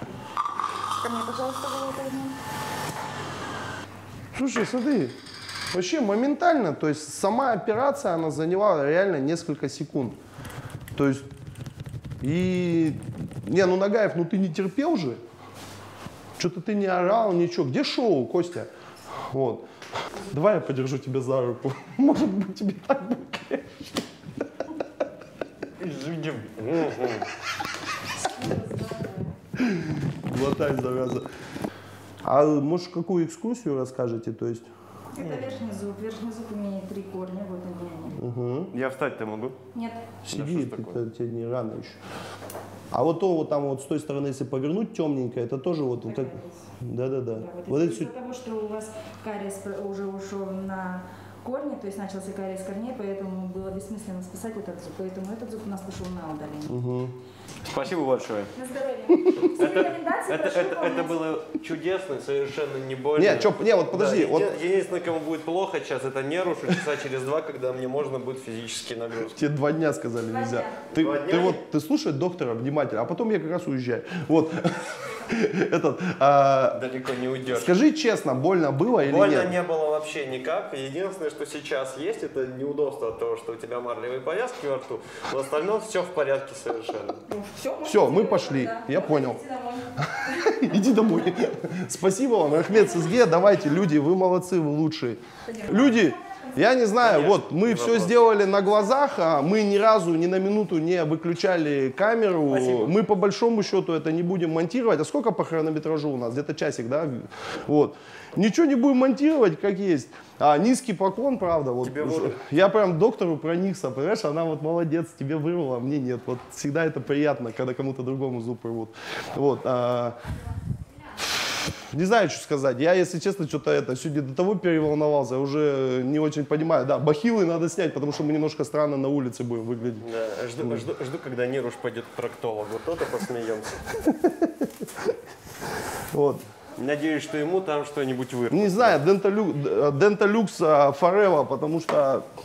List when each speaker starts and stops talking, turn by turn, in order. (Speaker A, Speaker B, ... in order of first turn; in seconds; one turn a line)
Speaker A: 1.0-2.4
Speaker B: 4.3-5.1
Speaker B: 5.7-10.2
Speaker B: 11.0-11.2
Speaker B: 12.2-15.2
Speaker B: 16.4-18.7
Speaker B: 19.3-19.6
Speaker B: 20.3-24.0
Speaker C: 25.8-27.3
Speaker A: 28.4-29.2
Speaker B: 29.6-31.3
Speaker B: 32.2-34.7
Speaker A: 35.1-38.2
Speaker C: 35.2-35.6
Speaker B: 38.2-38.7
Speaker C: 38.7-39.6
Speaker A: 39.7-40.0
Speaker B: 40.3-42.0
Speaker C: 40.3-41.0
Speaker B: 42.9-48.1
Speaker A: 46.0-46.5
Speaker A: 47.3-56.8
Speaker B: 56.7-57.2
Speaker C: 57.7-58.5
Speaker A: 58.5-61.3
Speaker B: 59.2-59.5
Speaker C: 59.6-69.4
Speaker B: 63.2-64.6
Speaker B: 69.3-76.8
Speaker A: 70.3-70.8
Speaker C: 71.0-71.6
Speaker C: 76.7-77.8
Speaker B: 77.5-79.6
Speaker C: 79.0-87.2
Speaker A: 87.3-89.9
Speaker B: 87.8-89.4
Speaker B: 90.0-120.2
Speaker C: 97.0-98.2
Speaker C: 102.5-102.9
Speaker C: 111.8-112.4
Speaker B: 121.9-130.1
Speaker C: 130.0-134.0
Speaker B: 134.1-134.7
Speaker B: 136.1-136.4
Speaker C: 136.8-139.0
Speaker B: 138.5-142.2